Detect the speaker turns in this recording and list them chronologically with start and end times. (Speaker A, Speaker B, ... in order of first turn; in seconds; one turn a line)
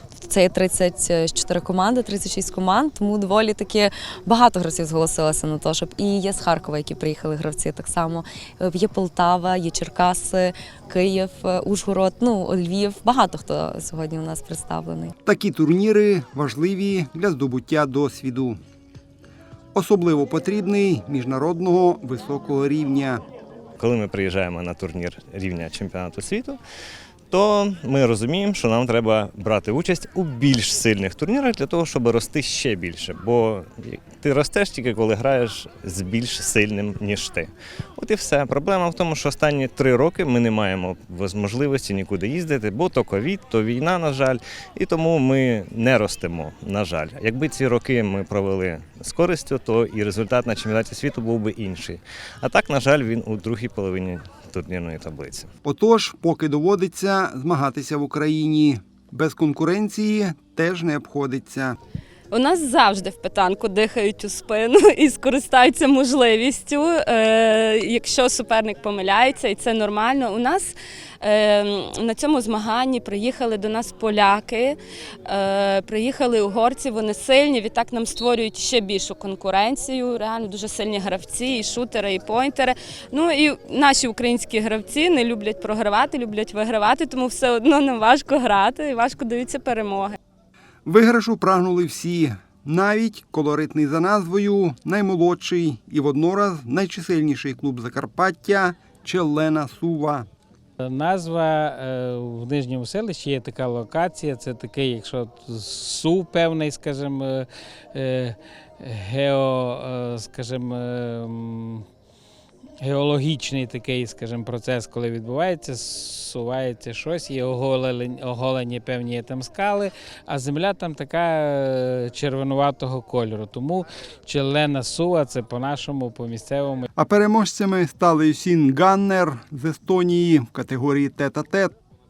Speaker A: 0.2-15.1
Speaker B: 15.2-18.6
Speaker B: 19.7-23.2
Speaker C: 23.8-26.6
Speaker C: 27.3-55.5
Speaker B: 55.6-61.8
Speaker D: 62.3-90.2
Speaker B: 90.8-100.3
Speaker E: 100.8-111.8
Speaker E: 112.8-126.9
Speaker B: 127.0-131.7